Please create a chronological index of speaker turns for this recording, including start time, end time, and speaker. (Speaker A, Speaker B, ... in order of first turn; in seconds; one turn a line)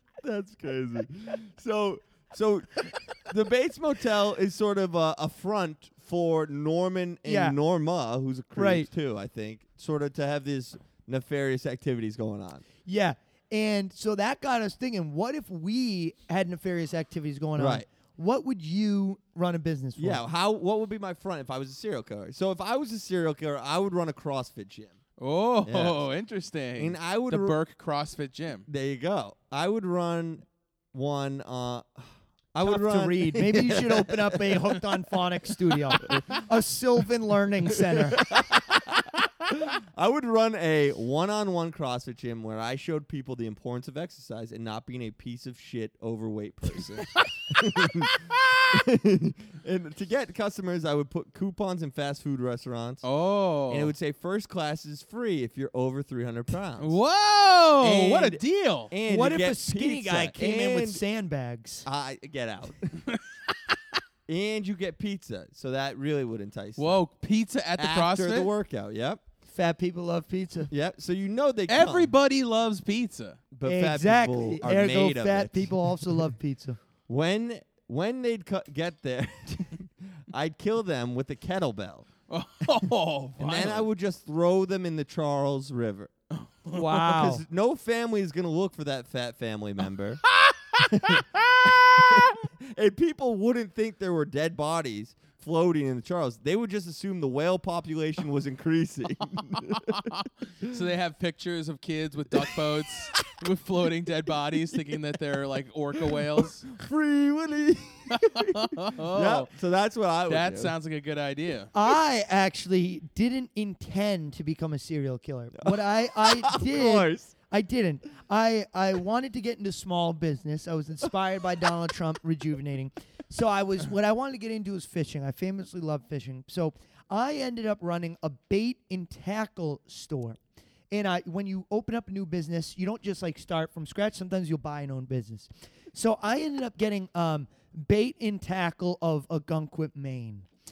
Speaker A: 0.2-12.6
Speaker B: 7.2-7.6
Speaker B: 8.6-8.9
Speaker B: 12.8-20.2
Speaker A: 17.6-17.9
Speaker A: 20.0-25.0
Speaker C: 25.2-28.7
Speaker A: 25.6-26.1
Speaker A: 26.8-27.6
Speaker A: 28.7-34.8
Speaker B: 32.6-38.2
Speaker A: 37.9-39.0
Speaker A: 39.6-48.2
Speaker C: 48.3-48.6
Speaker A: 48.7-53.0
Speaker C: 53.0-53.9
Speaker A: 53.7-57.0
Speaker C: 56.8-58.9
Speaker A: 57.8-61.0
Speaker B: 59.0-61.9
Speaker A: 61.9-63.1
Speaker C: 63.1-63.5
Speaker A: 64.3-67.0
Speaker C: 66.8-68.5
Speaker A: 67.8-69.2
Speaker B: 69.5-70.7
Speaker A: 70.7-72.1
Speaker C: 71.7-73.4
Speaker A: 73.5-76.2
Speaker B: 73.7-76.8
Speaker A: 77.1-82.1
Speaker C: 82.3-83.9
Speaker A: 83.4-86.1
Speaker C: 86.3-87.1
Speaker B: 86.7-87.4
Speaker A: 87.0-90.2
Speaker C: 90.3-92.3
Speaker A: 90.9-100.1
Speaker C: 99.6-106.7
Speaker A: 102.3-102.6
Speaker A: 104.7-105.0
Speaker A: 106.0-110.7
Speaker C: 108.1-109.5
Speaker C: 110.3-111.7
Speaker B: 111.7-130.4
Speaker A: 115.6-117.3
Speaker B: 130.9-140.5